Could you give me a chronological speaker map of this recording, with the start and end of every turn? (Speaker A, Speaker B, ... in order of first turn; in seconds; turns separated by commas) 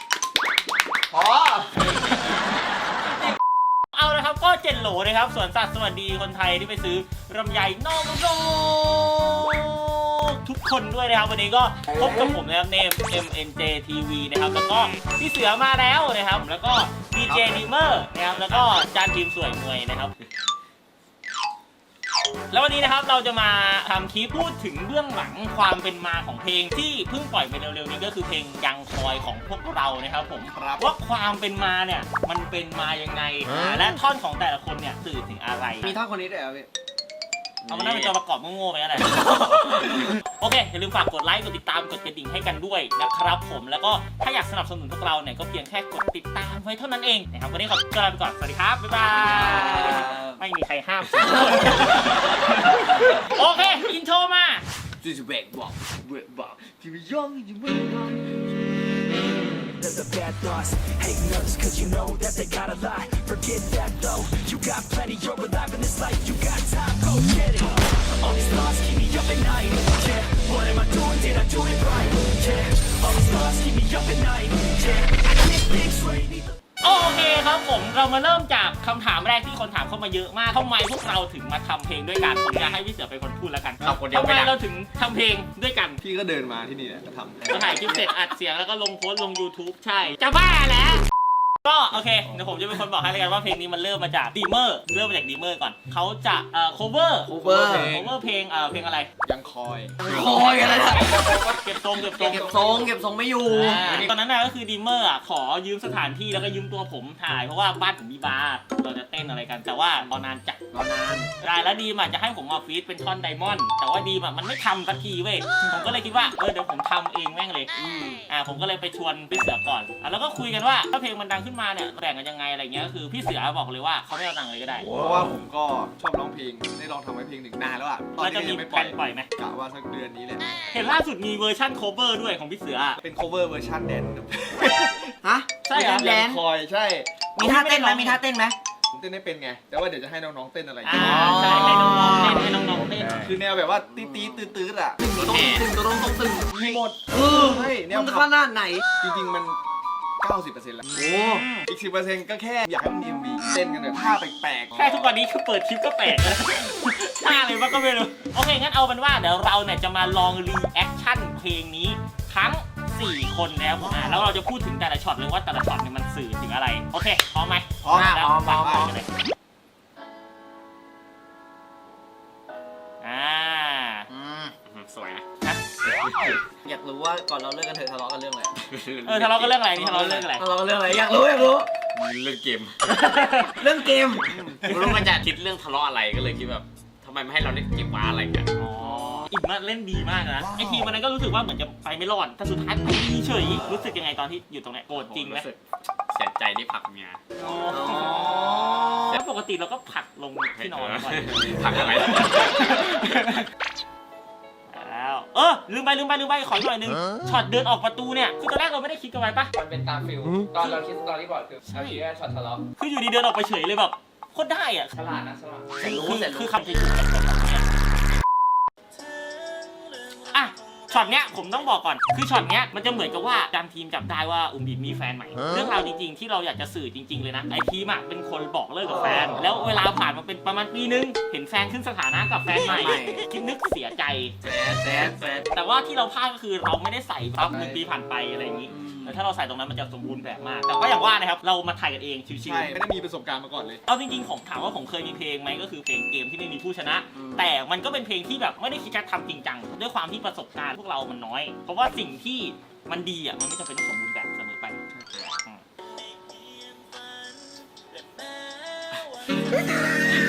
Speaker A: 1.8-2.4, Speaker A: 3.9-20.1, Speaker A: 22.5-36.0, Speaker B: 30.5-30.9, Speaker C: 35.8-36.7, Speaker D: 37.6-38.1, Speaker A: 37.7-54.7, Speaker C: 39.0-40.1, Speaker C: 49.1-50.4, Speaker C: 51.4-52.0, Speaker C: 53.4-53.8, Speaker C: 55.0-58.4, Speaker E: 59.8-76.4, Speaker A: 76.8-86.0, Speaker D: 83.8-84.5, Speaker B: 86.0-87.7, Speaker A: 87.5-91.0, Speaker C: 87.5-88.0, Speaker A: 91.6-99.1, Speaker C: 97.3-98.1, Speaker B: 97.3-98.1, Speaker B: 99.3-100.0, Speaker C: 100.0-101.4, Speaker D: 100.3-100.7, Speaker F: 101.1-101.5, Speaker A: 101.5-102.6, Speaker C: 102.0-104.1, Speaker F: 102.3-102.9, Speaker A: 103.4-110.6, Speaker C: 110.7-111.3, Speaker A: 111.4-117.7, Speaker C: 117.8-118.2, Speaker A: 118.3-124.9, Speaker B: 124.9-130.5, Speaker A: 128.2-129.3, Speaker A: 130.7-133.0, Speaker B: 133.0-135.1, Speaker C: 135.2-136.4, Speaker A: 135.7-136.1, Speaker B: 135.7-137.3, Speaker A: 137.4-138.2, Speaker C: 137.4-138.6, Speaker B: 138.9-141.9, Speaker A: 140.8-143.3, Speaker C: 140.9-142.5, Speaker B: 143.1-145.0, Speaker C: 143.8-148.9, Speaker D: 145.2-145.7, Speaker B: 146.1-148.3, Speaker B: 149.0-149.6, Speaker B: 150.2-151.0, Speaker C: 150.9-151.5, Speaker A: 151.2-151.7, Speaker B: 151.7-155.0, Speaker A: 154.8-169.1, Speaker B: 167.8-168.2, Speaker C: 167.9-168.9, Speaker A: 173.0-174.1, Speaker C: 174.1-174.5, Speaker D: 174.7-175.2, Speaker D: 175.8-176.4, Speaker C: 176.5-178.5, Speaker D: 178.6-180.2, Speaker A: 179.1-180.5, Speaker C: 179.8-181.7, Speaker D: 181.9-182.8, Speaker A: 182.9-183.7, Speaker C: 183.4-184.5, Speaker D: 184.5-188.5, Speaker A: 188.6-195.5, Speaker D: 194.9-197.2, Speaker A: 197.4-203.4, Speaker C: 197.7-199.2, Speaker D: 200.6-203.3, Speaker A: 204.7-209.5, Speaker F: 209.6-212.6, Speaker A: 211.7-212.0, Speaker A: 212.8-214.9, Speaker F: 214.9-215.7, Speaker C: 215.8-216.6, Speaker A: 215.8-217.7, Speaker A: 220.2-234.4, Speaker C: 228.9-229.7, Speaker C: 232.6-233.3, Speaker C: 234.4-235.5, Speaker D: 234.8-235.4, Speaker A: 235.5-242.8, Speaker C: 238.7-239.2, Speaker B: 242.4-243.8, Speaker A: 243.9-254.8, Speaker C: 247.2-247.5, Speaker A: 255.4-259.6